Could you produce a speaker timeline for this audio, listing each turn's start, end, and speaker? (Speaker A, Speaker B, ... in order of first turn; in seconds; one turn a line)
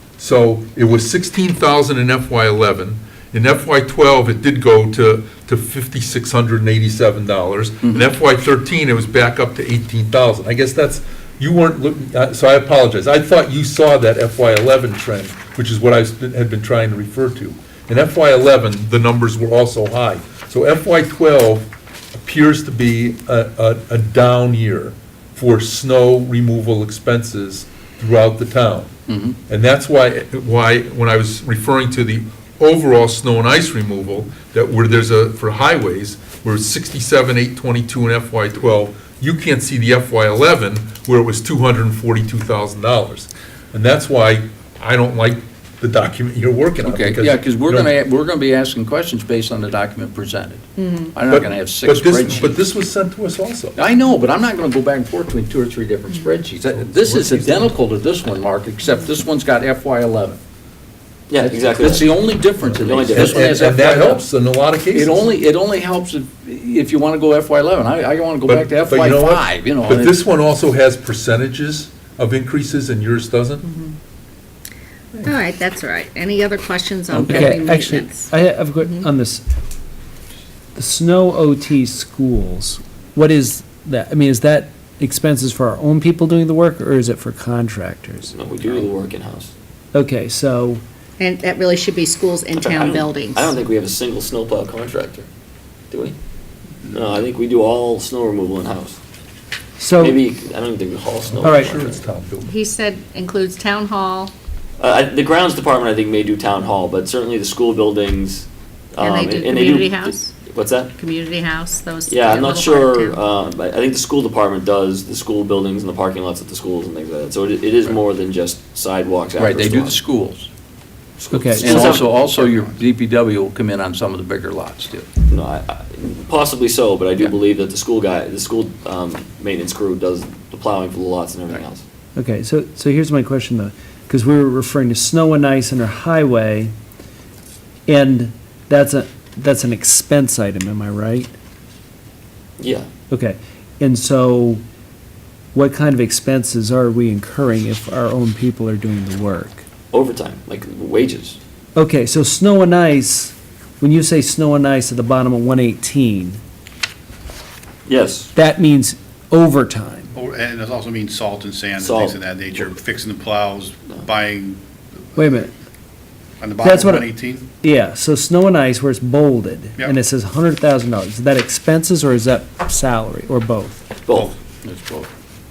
Speaker A: 0.2-28.9
Speaker B: 7.8-8.1
Speaker B: 29.1-29.4
Speaker A: 29.5-47.9
Speaker B: 46.8-52.6
Speaker C: 50.8-51.1
Speaker A: 51.3-53.8
Speaker B: 53.8-60.4
Speaker A: 56.6-57.8
Speaker D: 61.3-62.1
Speaker B: 61.4-64.2
Speaker A: 62.6-65.3
Speaker D: 62.8-63.6
Speaker B: 64.9-70.2
Speaker A: 68.4-73.6
Speaker C: 75.2-78.3
Speaker E: 77.1-79.4
Speaker C: 78.8-79.1
Speaker E: 80.7-88.3
Speaker D: 88.3-89.5
Speaker E: 89.9-90.8
Speaker C: 91.2-93.5
Speaker D: 92.5-95.3
Speaker D: 95.9-96.2
Speaker D: 96.9-99.0
Speaker E: 99.8-100.2
Speaker D: 100.0-102.0
Speaker A: 101.2-102.5
Speaker E: 101.4-101.8
Speaker C: 102.4-104.3
Speaker D: 104.8-110.9
Speaker C: 109.0-110.3
Speaker C: 111.0-113.2
Speaker D: 112.1-120.0
Speaker B: 119.4-120.5
Speaker D: 121.2-122.5
Speaker E: 121.3-121.9
Speaker B: 121.5-125.1
Speaker D: 125.3-131.8
Speaker E: 132.2-136.7
Speaker E: 137.9-141.3
Speaker D: 142.6-142.9
Speaker E: 143.1-144.6
Speaker E: 145.5-149.6
Speaker D: 149.9-151.4
Speaker E: 151.8-156.4
Speaker D: 157.9-158.3
Speaker E: 158.3-160.1
Speaker F: 160.1-164.6
Speaker D: 161.8-162.8
Speaker E: 165.2-165.5
Speaker F: 166.4-167.5
Speaker E: 166.6-173.8
Speaker D: 174.1-174.3
Speaker B: 174.6-175.1